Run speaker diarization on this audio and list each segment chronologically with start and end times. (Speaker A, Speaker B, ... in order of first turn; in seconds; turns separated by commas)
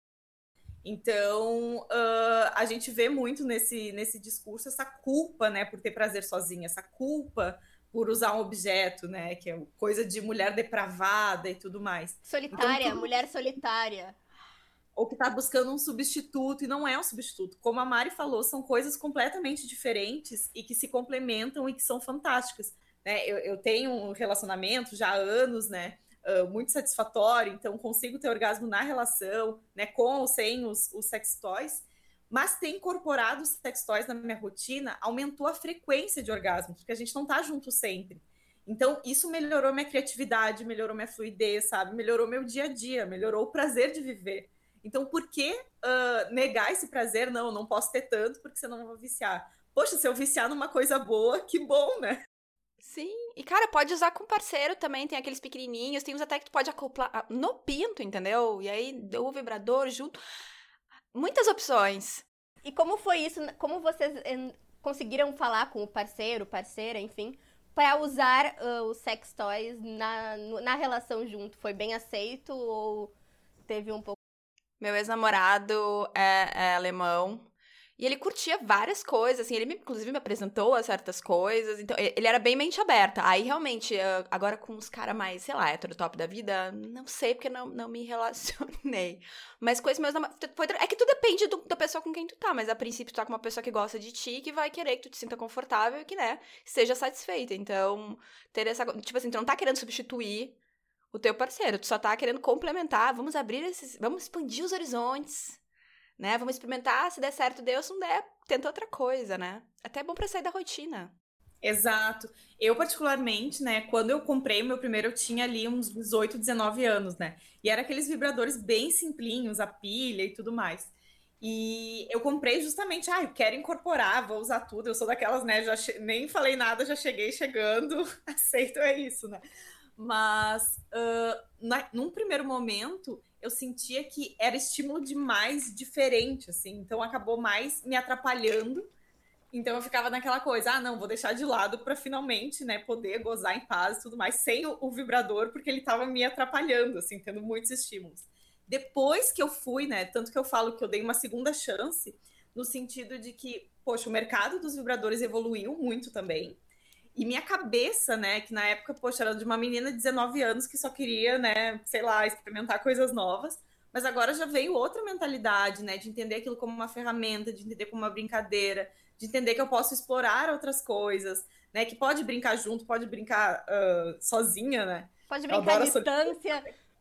Speaker A: 0.8-13.2, Speaker B: 12.3-14.2, Speaker A: 14.9-52.2, Speaker C: 52.8-60.2, Speaker C: 61.1-62.2, Speaker B: 62.6-73.1, Speaker B: 73.7-74.2, Speaker C: 74.8-100.5, Speaker C: 101.1-105.6, Speaker C: 106.2-111.1, Speaker A: 111.6-129.4, Speaker A: 130.0-138.9, Speaker A: 139.5-156.6, Speaker A: 157.1-176.4, Speaker B: 175.3-176.7